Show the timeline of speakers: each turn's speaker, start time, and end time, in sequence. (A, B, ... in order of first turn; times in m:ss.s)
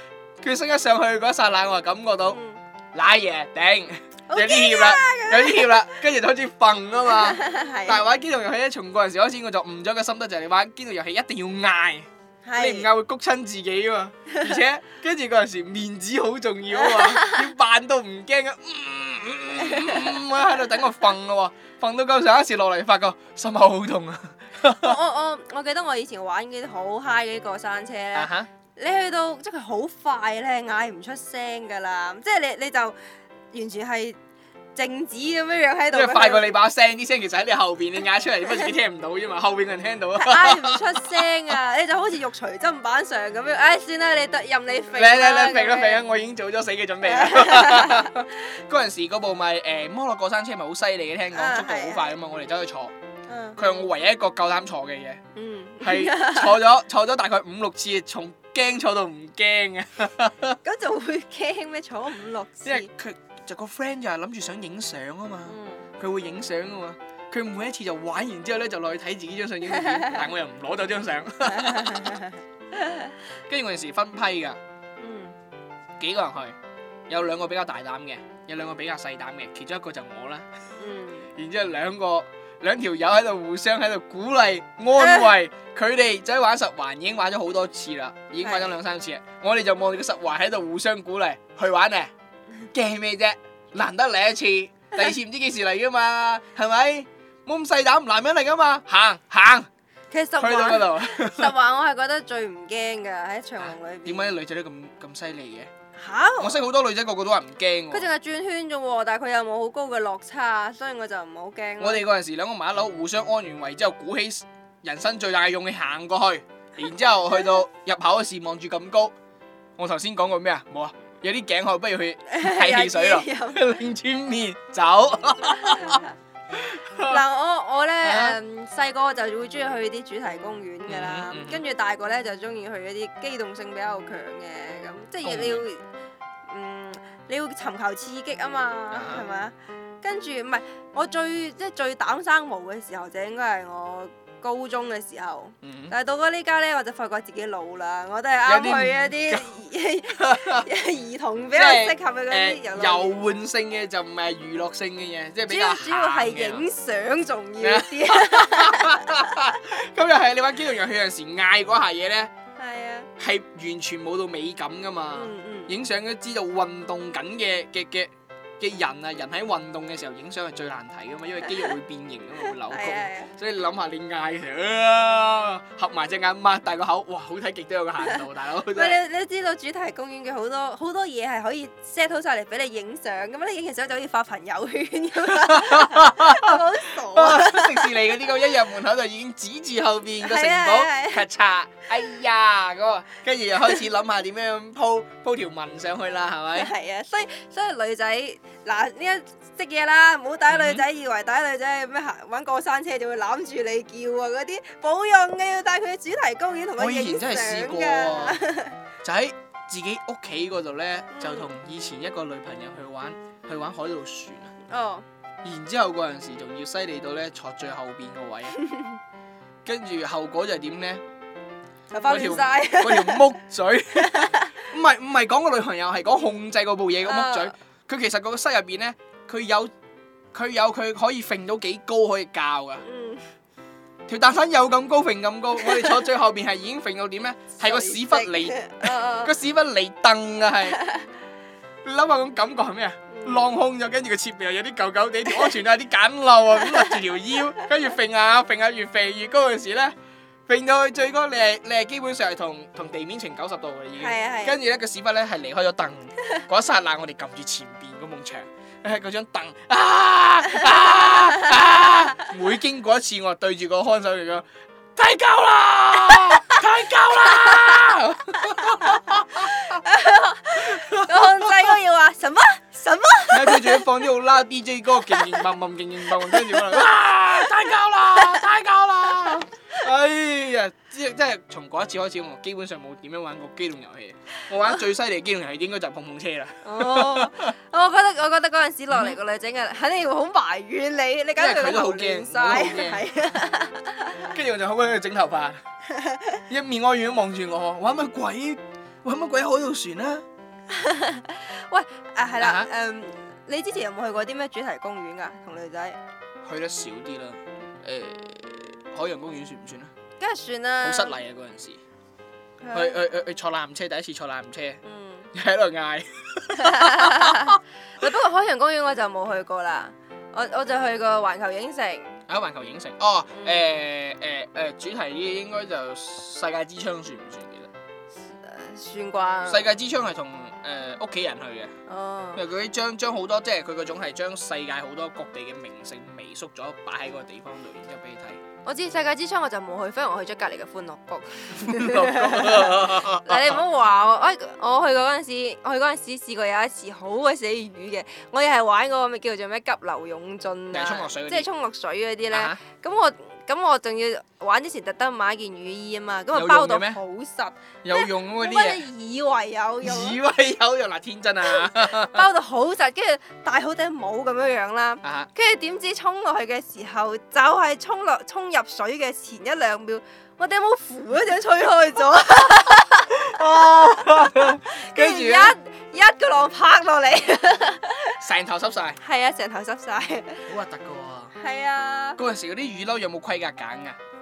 0:00.4-0:02.4 A
0:02.3-0:02.6 B
0:02.9-0:25.0 A
0:04.3-0:06.0 B
0:07.1-0:08.0 B
0:12.4-0:12.9 B
0:14.3-0:14.6 B
0:16.8-0:17.5 B
0:19.6-0:20.0 B
0:24.8-0:33.0 B
0:28.2-0:28.5 A
0:33.5-0:34.2 B
0:34.8-0:36.6 B
0:35.9-0:41.2 A
0:40.2-0:46.0 B
0:44.9-0:52.9 A
0:47.0-0:48.1 B
0:51.3-0:52.1 B
0:53.3-0:53.6 B
0:53.6-0:55.2 A
0:55.4-0:56.6 B
0:55.8-1:00.6 A
1:00.6-1:02.9 B
1:02.6-1:12.2 A
1:05.5-1:05.9 B
1:09.7-1:10.2 B
1:11.4-1:13.1 B
1:13.5-1:14.6 A
1:15.0-1:15.4 B
1:16.0-1:16.6 A
1:17.1-1:20.5 A
1:20.8-1:21.3 B
1:21.4-1:32.1 A
1:25.0-1:25.3 B
1:28.4-1:28.8 B
1:32.7-1:39.7 A
1:40.1-1:44.4 B
1:40.4-1:41.5 A
1:43.6-1:45.7 A
1:46.0-1:46.6 B
1:46.4-1:48.1 A
1:47.9-1:52.0 B
1:51.8-1:59.1 A
1:59.8-2:06.0 A
2:02.3-2:03.6 B
2:05.6-2:06.1 B
2:06.5-2:07.2 A
2:07.0-2:15.9 B
2:08.0-2:08.4 A
2:10.9-2:11.6 A
2:15.2-2:15.6 A
2:16.5-2:33.2 B
2:18.9-2:19.2 A
2:25.6-2:26.0 A
2:28.5-2:29.6 A
2:30.1-2:30.7 A
2:31.5-2:36.6 A
2:35.5-2:39.2 B
2:37.6-2:42.3 A
2:42.6-2:43.1 B
2:43.2-2:59.0 A
2:45.1-2:45.8 B
2:51.4-2:51.7 B
2:52.7-2:53.3 B
2:58.7-3:08.0 B
3:05.3-3:06.6 A
3:07.1-3:16.7 A
3:10.2-3:11.2 B
3:16.6-3:28.8 B
3:20.5-3:20.8 A
3:26.8-3:28.4 A
3:29.0-3:34.5 A
3:31.1-3:31.5 B
3:34.7-3:35.0 B
3:35.4-3:38.6 A
3:38.6-3:39.0 B
3:39.6-3:41.0 A
3:41.9-3:43.4 B
3:42.1-3:49.7 A
3:44.0-3:44.6 B
3:47.0-3:47.6 B
3:50.3-3:52.8 A
3:52.8-3:53.3 B
3:54.1-4:00.8 A
3:55.6-3:56.0 B
3:57.6-3:59.4 B
4:00.8-4:01.1 B
4:01.8-4:10.0 A
4:03.1-4:03.5 B
4:10.5-4:29.8 A
4:14.0-4:14.6 B
4:21.0-4:21.5 B
4:26.1-4:26.6 B
4:27.2-4:27.9 B
4:28.7-4:33.9 B
4:30.6-4:31.6 A
4:33.3-4:47.5 A
4:35.1-4:35.4 B
4:36.2-4:37.5 B
4:46.6-4:54.3 B
4:48.9-4:49.2 A
4:51.4-4:53.4 A
4:54.2-4:55.6 A
4:55.9-4:56.4 B
4:56.5-5:00.2 A
5:00.7-5:06.0 B
5:02.4-5:02.7 A
5:06.4-5:09.9 A
5:10.2-5:11.2 B
5:10.8-5:11.8 A
5:12.6-5:13.0 B
5:12.7-5:14.8 A
5:14.8-5:15.3 B
5:15.3-5:17.6 A
5:16.6-5:22.2 B
5:22.3-5:27.7 A
5:23.3-5:23.7 B
5:28.3-5:29.7 B
5:29.5-5:31.7 A
5:31.9-5:32.4 B
5:32.4-5:38.4 A
5:38.6-6:00.2 B
5:41.5-5:43.6 A
5:50.7-5:51.5 A
5:52.3-5:52.6 A
5:56.3-5:57.0 A
5:57.8-5:58.8 A
5:59.8-6:02.3 A
6:01.5-6:18.2 B
6:05.0-6:05.3 A
6:13.2-6:15.6 A
6:18.2-6:19.0 A
6:19.0-6:20.5 B
6:20.5-6:21.3 A
6:21.4-6:22.2 B
6:22.2-6:24.0 A